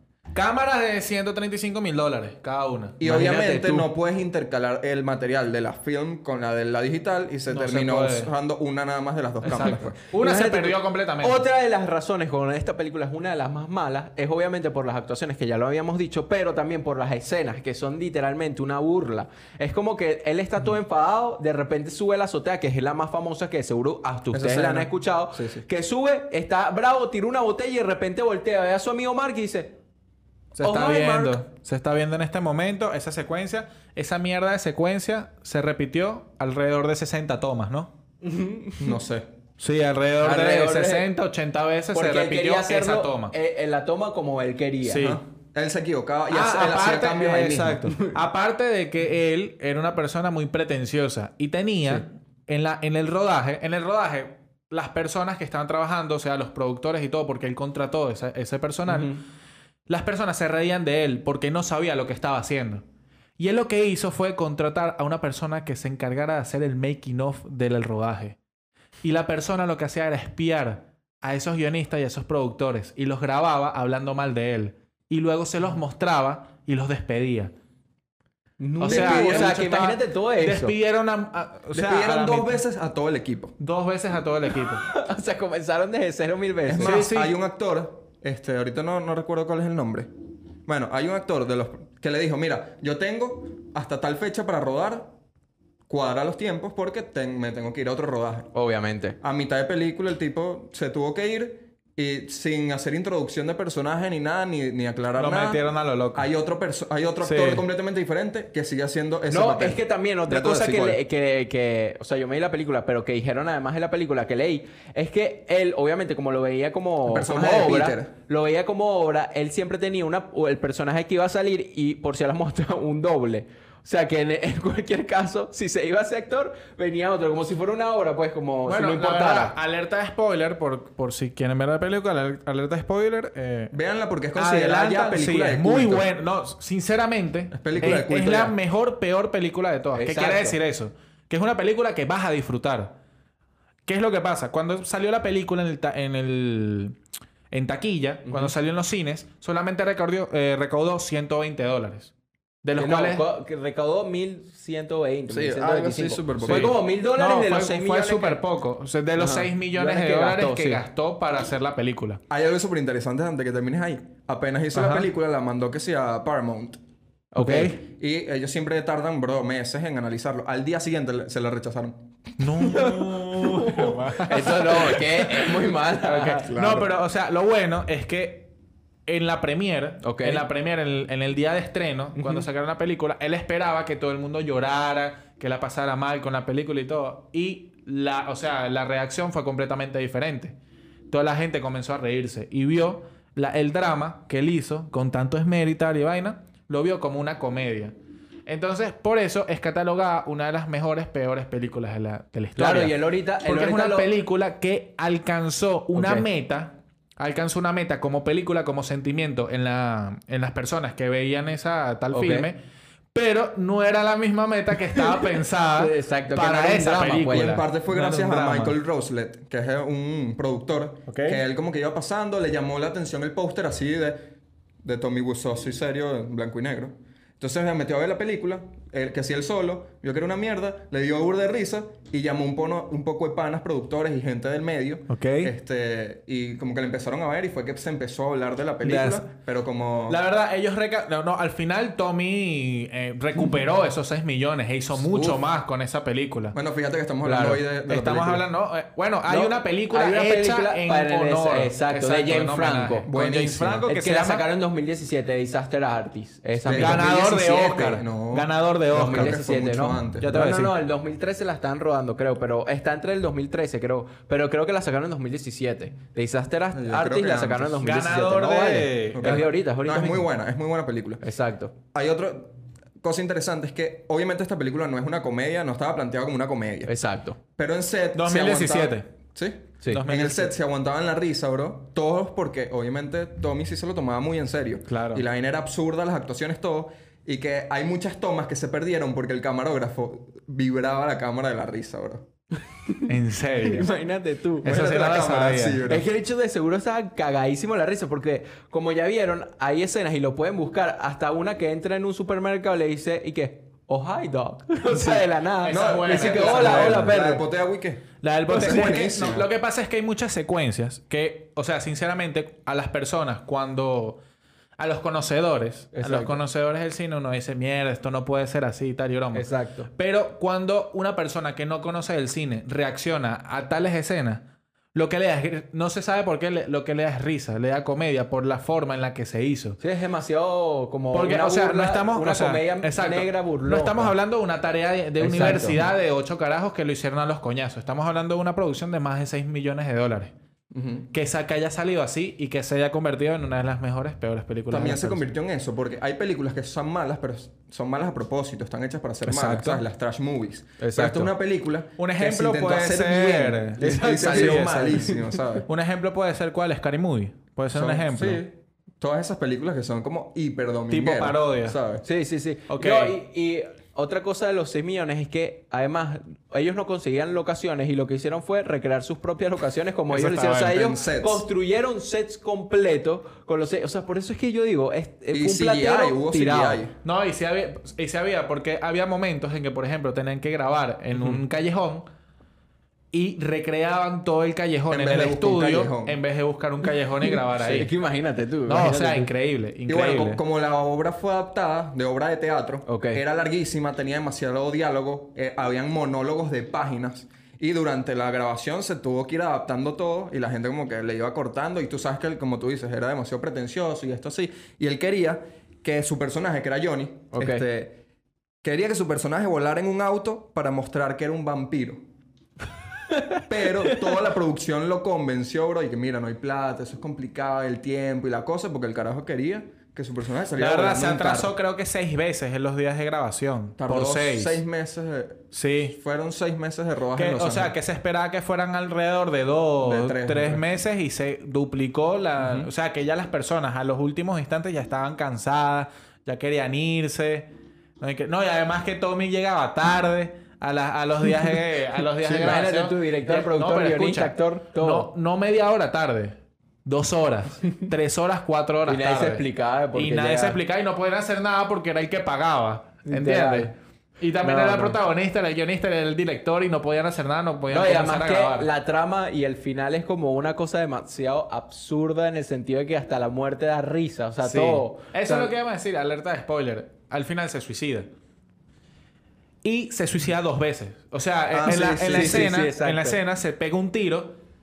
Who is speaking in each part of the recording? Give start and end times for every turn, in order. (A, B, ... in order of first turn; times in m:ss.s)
0:00.3-0:03.0 A
0:03.0-0:10.0 B
0:03.0-0:03.9 C
0:07.5-0:08.3 A
0:09.4-0:11.4 A
0:10.1-0:29.8 C
0:24.3-0:25.6 B
0:30.5-0:37.9 A
0:30.6-0:31.4 C
0:38.2-0:39.0 C
0:38.8-0:39.2 B
0:39.6-0:43.3 A
0:40.2-0:41.1 C
0:41.9-0:45.0 C
0:44.8-0:45.2 A
0:45.0-0:47.8 B
0:46.3-0:59.2 A
0:47.8-0:48.1 C
0:58.9-0:59.2 C
0:59.9-1:02.8 A
1:03.4-1:08.4 A
1:09.0-1:17.5 A
1:18.6-1:20.7 C
1:18.8-1:22.6 A
1:18.9-1:19.6 B
1:21.7-1:23.5 B
1:23.6-1:24.8 A
1:24.8-1:27.1 C
1:26.7-1:30.1 B
1:26.8-1:27.4 A
1:30.6-1:35.1 B
1:35.9-1:38.5 B
1:38.5-1:39.2 C
1:39.2-1:45.6 B
1:45.2-1:46.3 A
1:46.1-1:51.0 B
1:47.2-1:47.6 A
1:49.3-2:09.6 C
1:57.1-1:58.1 B
2:08.6-2:13.7 A
2:13.7-2:16.1 B
2:14.3-2:22.9 A
2:17.5-2:18.6 B
2:19.9-2:20.6 C
2:23.9-2:27.0 A
2:27.5-2:32.1 A
2:28.2-2:28.5 C
2:32.6-2:33.2 A
2:32.8-2:38.4 C
2:35.3-2:36.8 B
2:36.4-2:42.2 A
2:39.2-2:40.8 C
2:42.3-2:46.8 B
2:44.7-2:45.1 A
2:47.3-2:47.8 C
2:47.4-2:47.8 A
2:47.9-2:52.1 B
2:52.4-2:58.5 A
2:53.4-2:56.5 C
2:56.4-2:57.0 B
2:59.1-3:10.6 A
3:00.0-3:00.5 C
3:02.2-3:02.4 C
3:11.1-3:17.9 A
3:18.4-3:32.6 A
3:22.6-3:24.1 C
3:25.9-3:26.2 C
3:32.1-3:32.5 C
3:33.1-3:38.8 A
3:35.7-3:37.6 C
3:37.4-3:44.2 B
3:41.1-3:41.4 A
3:44.8-4:00.2 B
3:55.1-3:55.5 A
3:58.8-3:59.3 A
4:00.1-4:06.6 A
4:04.9-4:05.4 B
4:06.5-4:08.4 B
4:07.2-4:07.6 C
4:07.9-4:14.5 A
4:09.2-4:13.0 C
4:13.1-4:13.8 B
4:13.9-4:17.1 C
4:16.6-4:20.3 B
4:16.7-4:19.4 A
4:18.9-4:30.3 C
4:20.2-4:20.7 A
4:26.7-4:27.8 B
4:27.8-4:29.5 A
4:29.1-4:31.2 B
4:31.2-4:31.7 C
4:31.9-4:32.5 B
4:33.0-4:36.9 B
4:36.9-4:37.4 C
4:37.6-4:52.2 B
4:38.1-4:39.1 A
4:39.9-4:40.5 A
4:44.9-4:45.2 A
4:53.1-4:53.9 A
4:53.6-4:54.7 C
4:54.6-4:55.8 A
4:54.6-4:56.1 B
4:55.9-5:07.4 C
5:05.6-5:07.2 A
5:05.7-5:09.5 B
5:08.2-5:14.2 A
5:14.8-5:24.4 A
5:15.9-5:16.4 C
5:19.3-5:19.9 C
5:24.9-5:29.8 A
5:29.8-5:34.2 C
5:31.1-5:40.3 A
5:35.2-5:35.9 C
5:40.7-5:41.1 B
5:41.1-5:45.2 A
5:44.7-5:55.7 B
5:49.2-5:49.8 A
5:50.8-5:51.3 C
5:52.0-5:58.4 A
5:53.8-5:55.4 C
5:57.7-6:02.0 B
6:00.9-6:01.8 A
6:02.0-6:16.8 C
6:02.7-6:03.2 A
6:10.1-6:10.8 A
6:10.6-6:11.4 B
6:15.3-6:16.9 B
6:17.0-6:22.0 A
6:21.1-6:21.4 C
6:23.1-6:27.9 A
6:24.9-6:26.2 B
6:27.2-6:29.3 C
6:28.7-6:30.4 A
6:29.9-6:48.0 B
6:32.8-6:33.2 C
6:47.3-6:47.6 C
6:48.6-6:52.0 B
6:53.1-6:54.0 C
6:53.5-7:01.5 B
7:00.6-7:04.6 A
7:03.8-7:07.7 B
7:05.5-7:06.0 A
7:07.1-7:17.5 A
7:09.8-7:10.6 B
7:18.0-7:29.4 A
7:22.2-7:25.1 C
7:28.8-7:30.6 C
7:29.9-7:38.7 A
7:33.0-7:33.7 C
7:34.4-7:35.0 C
7:37.7-7:45.5 C
7:44.4-7:48.1 A
7:49.6-7:54.4 A
7:51.5-7:52.5 B
7:52.0-7:53.2 C